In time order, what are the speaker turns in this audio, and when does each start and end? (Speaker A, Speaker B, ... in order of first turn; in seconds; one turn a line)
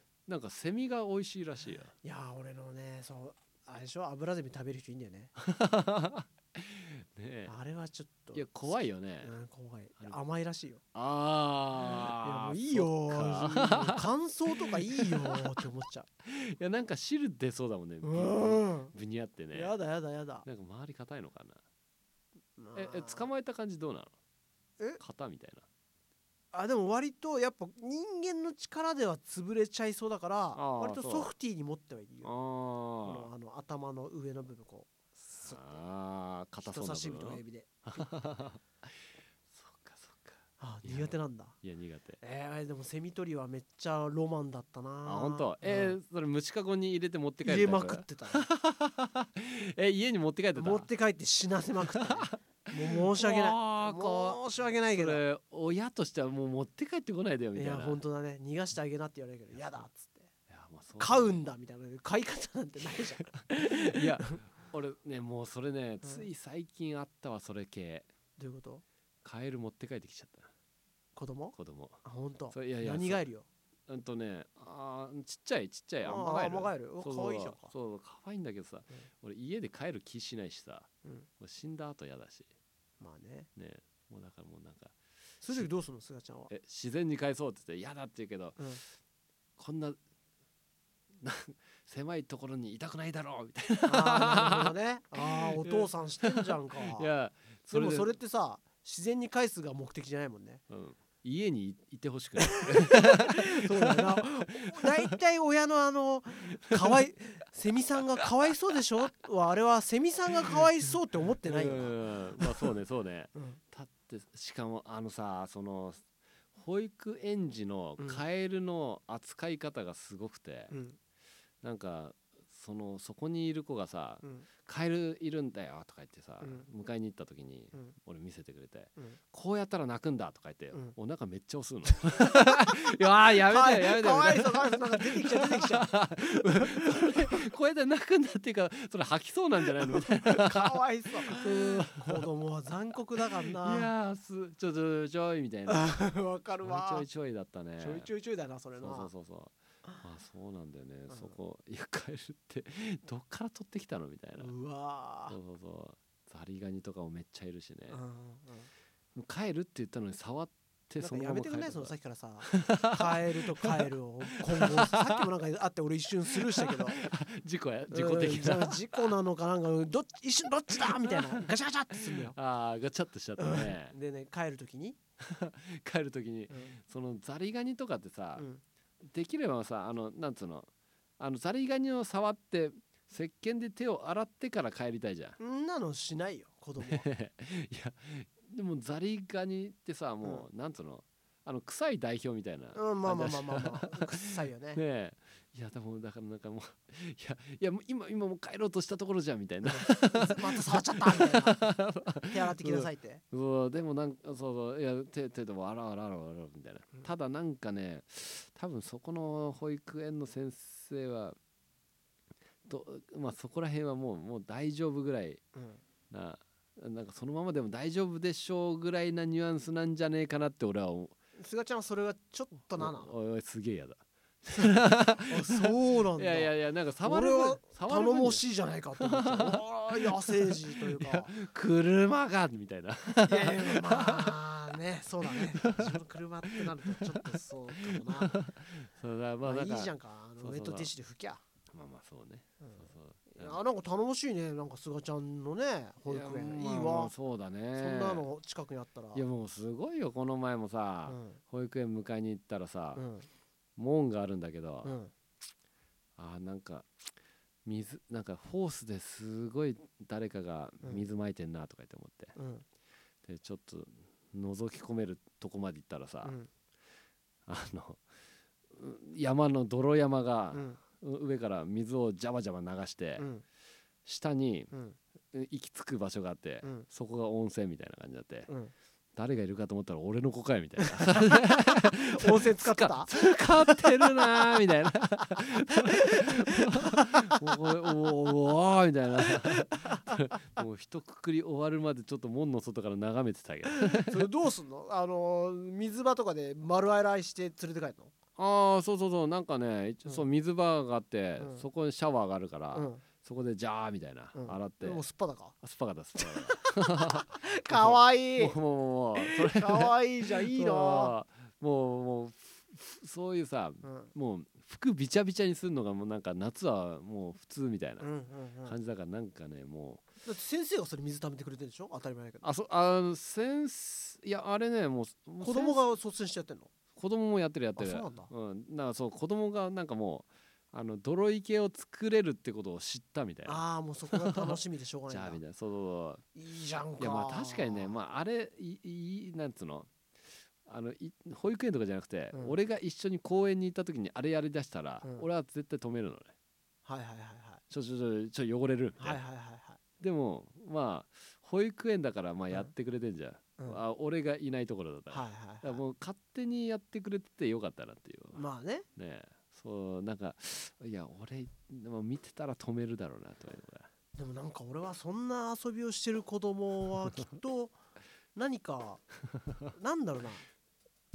Speaker A: 0.3-1.9
Speaker B: 2.0-5.3
Speaker A: 5.4-7.5
Speaker B: 7.5-8.5
Speaker A: 8.3-9.3
Speaker B: 9.2-10.8
Speaker A: 10.9-15.6
Speaker B: 12.0-16.1
Speaker A: 16.2-19.7
Speaker B: 18.0-18.9
Speaker B: 19.5-20.4
Speaker A: 20.4-21.6
Speaker B: 22.6-23.3
Speaker A: 22.7-24.1
Speaker A: 25.0-25.6
Speaker B: 26.5-32.3
Speaker A: 30.5-31.3
Speaker A: 32.2-33.3
Speaker B: 33.0-35.8
Speaker A: 35.4-38.9
Speaker B: 36.6-38.0
Speaker A: 39.5-42.2
Speaker B: 40.6-41.6
Speaker B: 42.2-46.0
Speaker A: 45.0-50.9
Speaker B: 47.4-48.5
Speaker B: 50.5-55.2
Speaker A: 52.0-54.4
Speaker A: 54.9-58.0
Speaker B: 57.5-60.3
Speaker A: 60.5-61.4
Speaker B: 61.0-64.4
Speaker A: 63.3-68.1
Speaker B: 66.0-66.3
Speaker B: 68.4-68.8
Speaker A: 69.2-70.5
Speaker B: 71.2-73.5
Speaker A: 71.5-73.2
Speaker A: 73.9-82.5
Speaker B: 76.0-77.7
Speaker B: 83.0-83.5
Speaker A: 83.5-84.9
Speaker B: 85.4-86.5
Speaker A: 86.5-88.7
Speaker A: 89.6-90.0
Speaker A: 91.2-98.1
Speaker B: 93.8-97.1
Speaker B: 97.7-100.6
Speaker A: 100.7-105.1
Speaker B: 102.4-112.7
Speaker A: 106.7-107.0
Speaker A: 111.4-116.0
Speaker B: 113.3-113.6
Speaker A: 116.5-120.7
Speaker B: 120.7-121.0
Speaker A: 121.6-142.3
Speaker B: 124.2-124.5
Speaker B: 126.4-126.7
Speaker B: 132.1-137.5
Speaker B: 139.8-143.9
Speaker A: 143.6-146.0
Speaker B: 145.7-147.1
Speaker A: 146.6-148.1
Speaker B: 147.8-149.1
Speaker A: 148.8-154.5
Speaker B: 151.1-151.3
Speaker B: 154.4-155.4
Speaker A: 155.3-158.0
Speaker B: 157.9-158.7
Speaker A: 159.1-163.8
Speaker B: 161.0-167.0
Speaker A: 164.6-165.2
Speaker A: 166.3-169.1
Speaker B: 167.9-172.3
Speaker A: 170.8-171.4
Speaker A: 172.1-173.9
Speaker B: 173.4-175.0
Speaker A: 175.2-178.4
Speaker B: 176.5-176.8
Speaker B: 178.4-178.6
Speaker A: 179.0-180.7
Speaker A: 181.2-185.4
Speaker B: 185.4-187.1
Speaker A: 186.8-211.3
Speaker B: 192.7-194.8
Speaker B: 199.6-201.6
Speaker B: 202.3-203.2
Speaker A: 212.7-215.4
Speaker B: 215.5-215.8
Speaker A: 216.1-221.1
Speaker B: 221.4-223.1
Speaker A: 222.8-228.4
Speaker B: 224.5-226.5
Speaker B: 227.0-231.3
Speaker A: 229.0-234.5
Speaker B: 233.2-238.3
Speaker A: 235.2-236.0
Speaker A: 236.5-237.2
Speaker A: 237.8-240.9
Speaker B: 239.4-241.4
Speaker A: 241.7-243.6
Speaker B: 242.6-247.1
Speaker A: 246.1-248.2
Speaker B: 247.7-249.2
Speaker A: 249.1-253.0
Speaker B: 251.1-251.4
Speaker B: 252.9-253.3
Speaker A: 253.8-254.9
Speaker B: 254.8-255.1
Speaker A: 256.2-256.9
Speaker A: 257.6-262.3
Speaker B: 262.3-262.6
Speaker A: 263.2-266.3
Speaker B: 266.2-266.5
Speaker A: 267.4-268.0
Speaker A: 268.7-273.3
Speaker B: 270.5-270.8
Speaker B: 273.2-273.4
Speaker A: 274.0-274.7
Speaker B: 274.7-275.0
Speaker A: 275.3-278.5
Speaker B: 276.6-276.9
Speaker A: 279.1-294.3
Speaker B: 280.8-284.1
Speaker B: 285.8-287.9
Speaker B: 289.1-290.2
Speaker B: 293.6-298.1
Speaker A: 298.4-305.0
Speaker B: 301.4-301.6
Speaker B: 302.7-303.0
Speaker B: 304.3-305.5
Speaker A: 305.6-318.1
Speaker B: 306.1-308.6
Speaker B: 309.2-311.1
Speaker B: 313.8-314.1
Speaker B: 318.0-318.8
Speaker A: 318.6-320.0
Speaker B: 320.2-322.5
Speaker A: 322.4-325.8
Speaker B: 325.4-326.7
Speaker A: 326.9-336.2
Speaker B: 327.8-328.3
Speaker B: 333.4-335.4
Speaker B: 336.3-337.9
Speaker A: 337.0-339.9
Speaker A: 340.6-346.3
Speaker B: 345.0-345.3
Speaker B: 346.9-347.6
Speaker A: 347.7-349.2
Speaker B: 349.0-349.8
Speaker A: 350.0-358.4
Speaker B: 355.1-355.8
Speaker B: 358.3-358.9
Speaker A: 358.9-363.9
Speaker B: 364.1-367.8
Speaker B: 368.3-369.0
Speaker B: 369.7-370.4